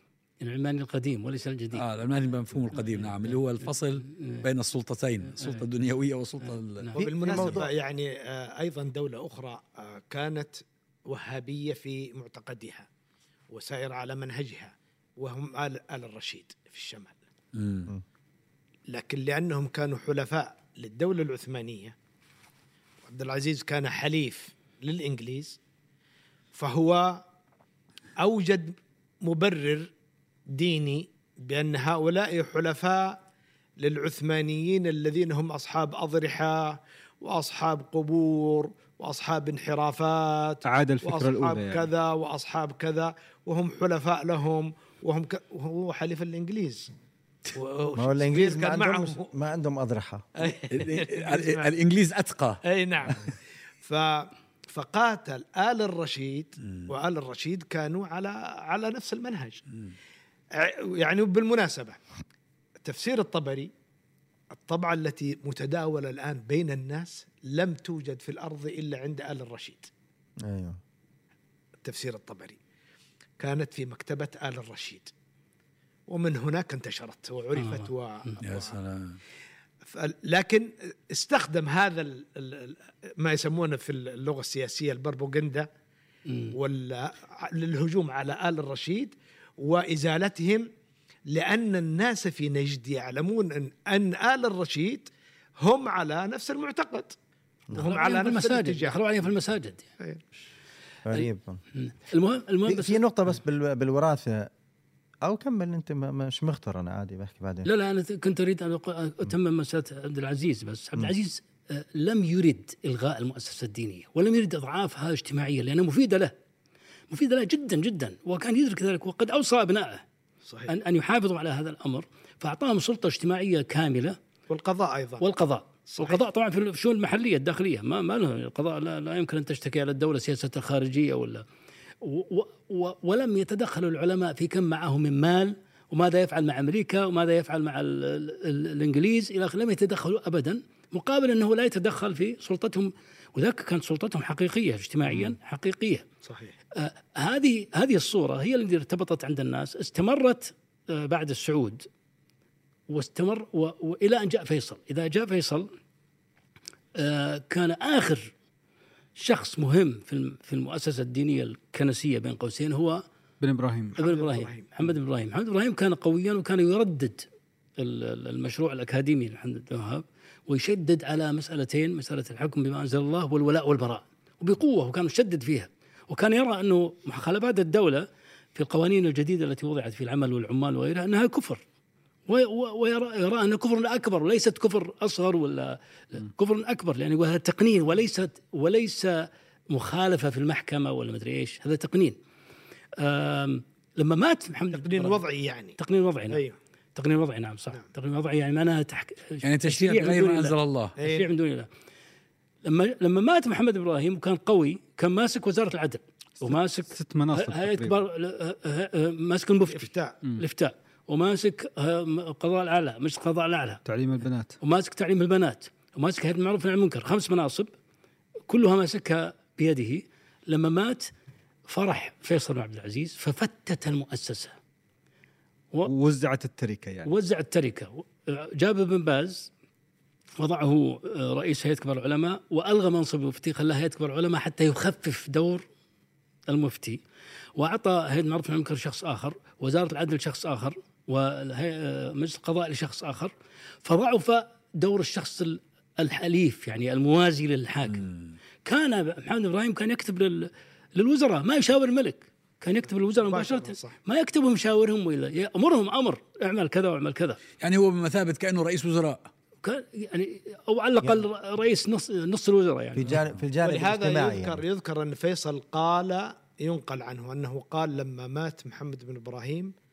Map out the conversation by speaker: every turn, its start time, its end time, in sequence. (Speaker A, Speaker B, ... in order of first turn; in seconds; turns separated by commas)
Speaker A: 0.4-1.8, Speaker B: 1.7-6.9, Speaker A: 2.7-4.5, Speaker A: 5.4-5.6, Speaker A: 6.5-7.0, Speaker C: 7.0-7.7, Speaker D: 7.0-12.9, Speaker D: 13.5-17.2, Speaker B: 17.5-17.9, Speaker D: 18.9-21.9, Speaker D: 23.0-25.6, Speaker D: 26.5-27.2, Speaker D: 28.2-29.9, Speaker D: 30.5-33.2, Speaker D: 33.8-46.9, Speaker E: 40.6-41.9, Speaker D: 47.5-49.3, Speaker C: 48.0-50.3, Speaker D: 50.4-51.7, Speaker B: 50.7-52.6, Speaker D: 52.6-59.6, Speaker D: 60.5-62.0, Speaker D: 62.8-63.7, Speaker D: 64.5-69.9, Speaker C: 70.4-70.8, Speaker D: 71.8-72.6, Speaker D: 73.4-75.1, Speaker D: 76.1-78.7, Speaker A: 77.5-78.4, Speaker B: 78.4-79.2, Speaker D: 79.8-85.7, Speaker A: 86.2-86.5, Speaker D: 86.5-90.7, Speaker D: 91.3-95.1, Speaker D: 95.6-97.2, Speaker D: 97.7-99.0, Speaker A: 97.7-99.9, Speaker C: 101.0-101.6, Speaker A: 101.1-103.0, Speaker C: 102.7-104.5, Speaker C: 105.2-107.7, Speaker A: 107.6-116.3, Speaker A: 117.1-120.0, Speaker D: 120.5-120.7, Speaker A: 120.7-124.2, Speaker D: 124.5-125.2, Speaker A: 125.2-131.4, Speaker D: 125.9-126.2, Speaker A: 132.0-146.0, Speaker D: 146.2-146.5, Speaker A: 146.7-151.8, Speaker A: 152.9-155.7, Speaker A: 156.9-158.3, Speaker A: 159.2-163.0, Speaker E: 163.4-163.9, Speaker D: 163.9-164.7, Speaker A: 164.0-167.3, Speaker A: 167.8-181.6, Speaker A: 182.3-192.2, Speaker A: 193.0-195.2, Speaker D: 194.7-195.8, Speaker A: 195.8-196.4, Speaker D: 196.3-196.6, Speaker A: 196.9-201.7, Speaker B: 199.4-200.9, Speaker D: 201.0-201.3, Speaker A: 202.6-213.8, Speaker E: 206.9-208.0, Speaker D: 209.7-210.2, Speaker E: 213.8-214.5, Speaker A: 214.6-217.7, Speaker A: 218.5-221.1, Speaker A: 221.7-224.6, Speaker E: 225.8-227.1, Speaker A: 227.0-229.5, Speaker A: 230.4-235.6, Speaker A: 236.5-237.0, Speaker A: 237.6-243.3, Speaker A: 243.8-248.1, Speaker B: 247.9-248.3, Speaker A: 248.6-257.4, Speaker D: 253.2-254.0, Speaker B: 257.6-259.3, Speaker A: 259.6-263.2, Speaker C: 262.9-264.6, Speaker D: 263.6-269.7